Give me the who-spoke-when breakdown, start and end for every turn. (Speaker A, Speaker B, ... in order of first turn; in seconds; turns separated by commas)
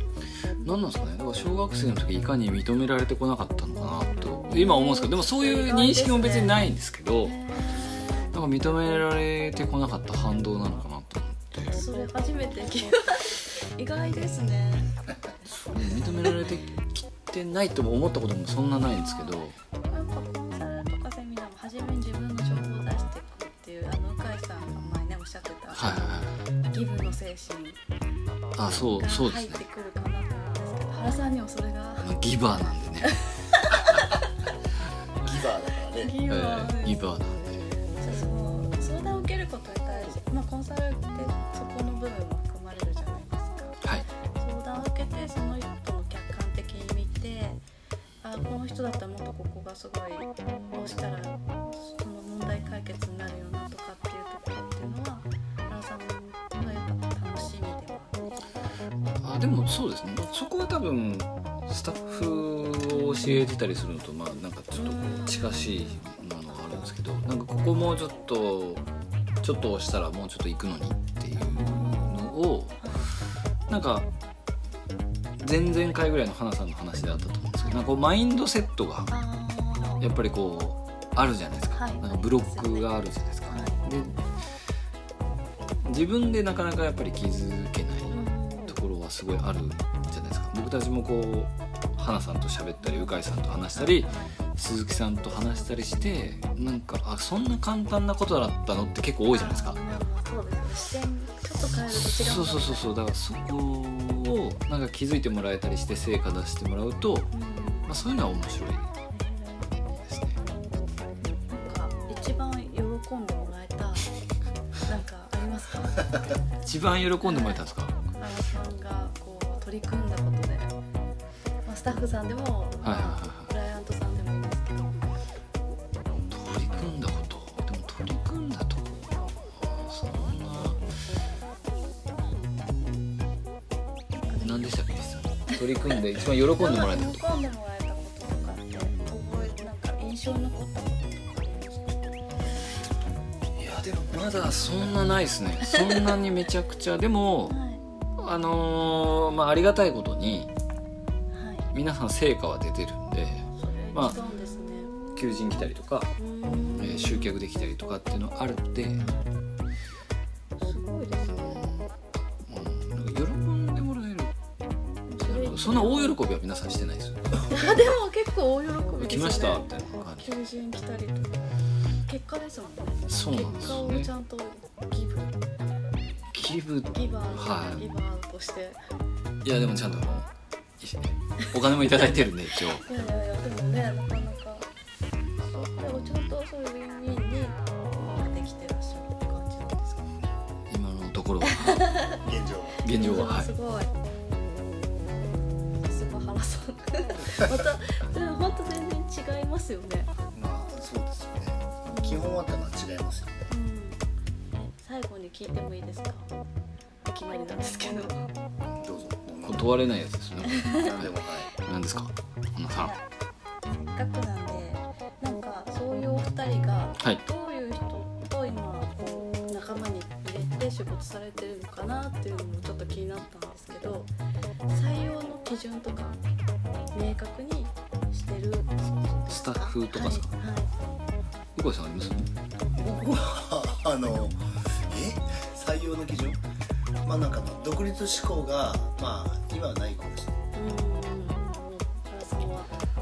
Speaker A: 0.6-7.3, Speaker B: 4.4-6.6, Speaker B: 7.2-8.3, Speaker A: 8.3-11.8, Speaker B: 11.6-14.9, Speaker A: 15.4-19.5, Speaker B: 18.9-19.3, Speaker B: 19.9-26.2, Speaker A: 25.7-26.4, Speaker B: 26.7-27.8, Speaker A: 28.6-29.6, Speaker B: 28.8-32.1, Speaker A: 32.0-34.1, Speaker B: 33.0-34.2, Speaker C: 35.2-36.1, Speaker B: 36.0-37.0, Speaker A: 36.3-37.6, Speaker B: 38.0-43.8, Speaker B: 44.4-47.6, Speaker B: 48.2-58.2, Speaker A: 59.2-68.8, Speaker B: 64.8-66.9, Speaker A: 69.4-72.8, Speaker B: 71.4-73.1, Speaker A: 73.7-74.1, Speaker A: 75.4-79.1, Speaker B: 77.6-78.0, Speaker B: 79.1-80.0, Speaker A: 80.0-84.2, Speaker B: 81.7-82.9, Speaker B: 83.5-83.8, Speaker A: 85.8-88.2, Speaker B: 88.1-88.8, Speaker A: 88.7-99.8, Speaker B: 92.8-93.2, Speaker B: 93.7-94.3, Speaker B: 95.3-96.0, Speaker B: 99.3-102.9, Speaker A: 101.9-107.3, Speaker B: 107.3-107.9, Speaker A: 107.8-108.9, Speaker B: 109.1-109.9, Speaker A: 110.0-110.4, Speaker B: 111.5-114.1, Speaker B: 114.9-116.3, Speaker A: 116.6-118.0, Speaker B: 117.2-117.6, Speaker B: 118.2-120.7, Speaker B: 121.6-125.1, Speaker A: 122.8-123.5, Speaker A: 126.3-130.8, Speaker B: 134.1-134.7, Speaker A: 134.4-137.2, Speaker B: 136.6-142.1, Speaker A: 143.6-147.6, Speaker B: 147.5-147.8, Speaker A: 148.2-150.5, Speaker B: 151.3-151.7, Speaker A: 151.7-154.2, Speaker B: 153.6-154.9, Speaker A: 155.1-156.1, Speaker B: 156.2-157.3, Speaker A: 156.8-159.0, Speaker B: 159.0-159.3, Speaker B: 160.6-161.7, Speaker A: 162.4-164.3, Speaker B: 165.1-166.2, Speaker A: 165.2-167.5, Speaker B: 167.5-171.4, Speaker A: 169.0-170.3, Speaker B: 172.1-175.3, Speaker A: 173.1-174.1, Speaker A: 176.3-177.8, Speaker B: 176.9-178.8, Speaker A: 179.4-180.3, Speaker A: 180.8-182.8, Speaker B: 182.7-184.7, Speaker B: 185.4-190.1, Speaker A: 190.7-191.9, Speaker B: 191.5-192.2, Speaker C: 192.2-192.8, Speaker A: 192.8-193.5, Speaker B: 192.8-193.9, Speaker B: 195.8-200.1, Speaker C: 200.3-203.5, Speaker B: 201.9-202.2, Speaker B: 203.5-206.3, Speaker B: 207.0-208.3, Speaker C: 208.8-209.7, Speaker A: 209.4-212.9, Speaker B: 210.5-210.9, Speaker C: 210.7-211.5, Speaker B: 212.8-213.0, Speaker B: 213.9-224.1, Speaker B: 224.7-226.2, Speaker B: 226.9-230.7, Speaker A: 229.3-230.3, Speaker A: 231.6-232.3, Speaker C: 232.7-236.4, Speaker C: 237.0-240.4, Speaker B: 240.5-242.7